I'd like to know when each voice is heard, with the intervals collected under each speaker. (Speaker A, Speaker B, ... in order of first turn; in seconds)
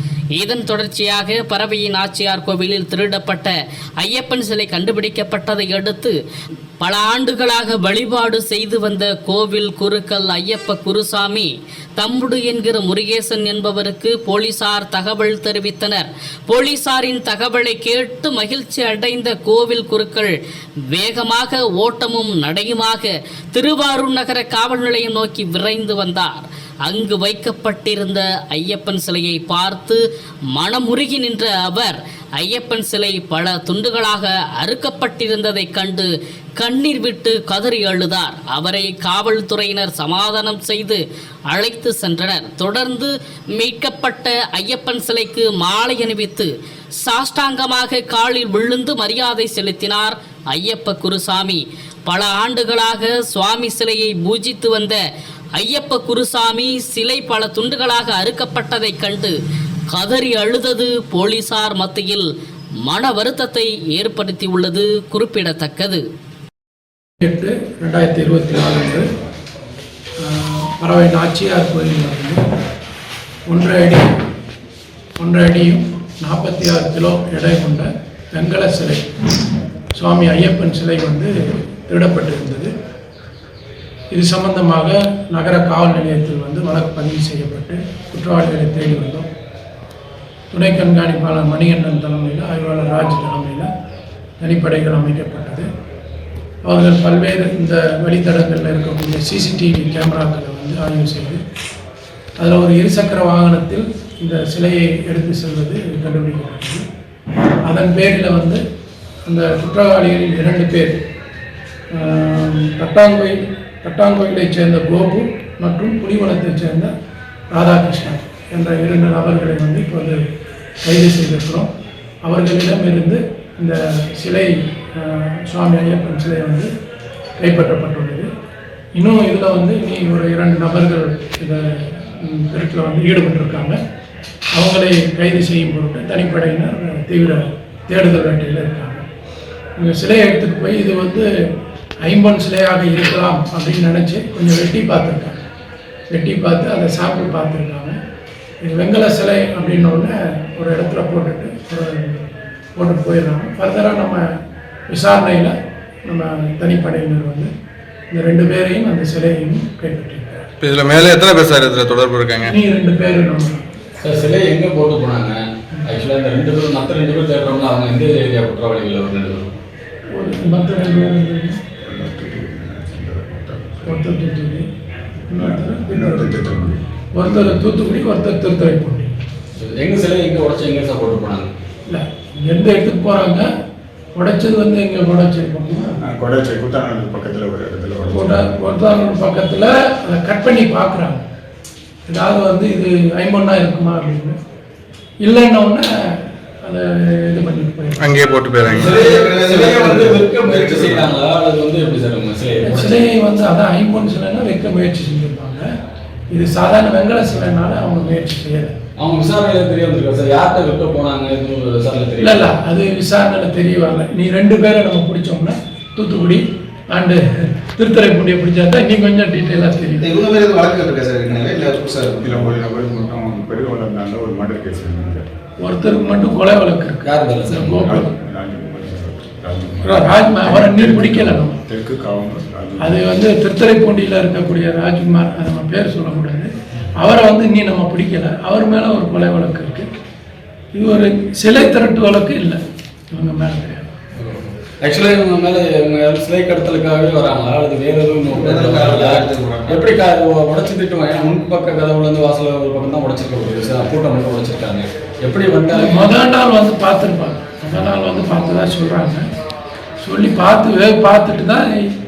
Speaker A: 0.3-6.2, 6.8-20.3, 20.9-30.0, 30.5-46.5, 47.0-55.0, 55.6-59.4, 59.9-62.3, 62.8-66.0
Speaker B: 67.2-69.0, 70.2-72.4, 73.5-74.1, 75.2-79.0, 79.9-82.7, 84.1-89.3, 90.5-93.7, 94.4-95.7, 96.6-101.4, 102.4-106.8, 107.7-108.6, 109.2-111.0, 111.9-116.9, 117.5-120.2, 120.8-121.7, 122.2-126.7, 127.4-128.3, 128.9-133.8, 134.5-139.0, 139.8-141.3, 142.0-145.4, 146.1-147.9, 148.6-154.2, 154.9-155.5, 156.0-157.5, 158.1-160.5, 162.5-163.6, 170.1-171.6, 173.9-174.7, 175.3-176.6, 177.1-179.1, 181.9-183.4, 184.1-185.9, 188.1-191.2, 192.1-194.3, 195.2-199.1, 202.6-205.7, 206.3-208.7, 212.2-220.1, 225.6-228.1, 229.8-231.6, 232.8-239.8, 240.7-242.6, 243.1-243.8, 255.7-259.2, 260.0-261.7
Speaker C: 160.6-162.5, 198.0-199.0
Speaker D: 164.0-169.5, 179.6-181.5, 198.7-203.0, 209.0-212.6, 227.0-227.8, 244.2-256.1
Speaker E: 171.8-174.0, 175.3-177.6, 186.0-188.8, 222.2-225.3, 227.8-233.1
Speaker F: 199.0-201.1, 220.0-222.5, 248.3-250.0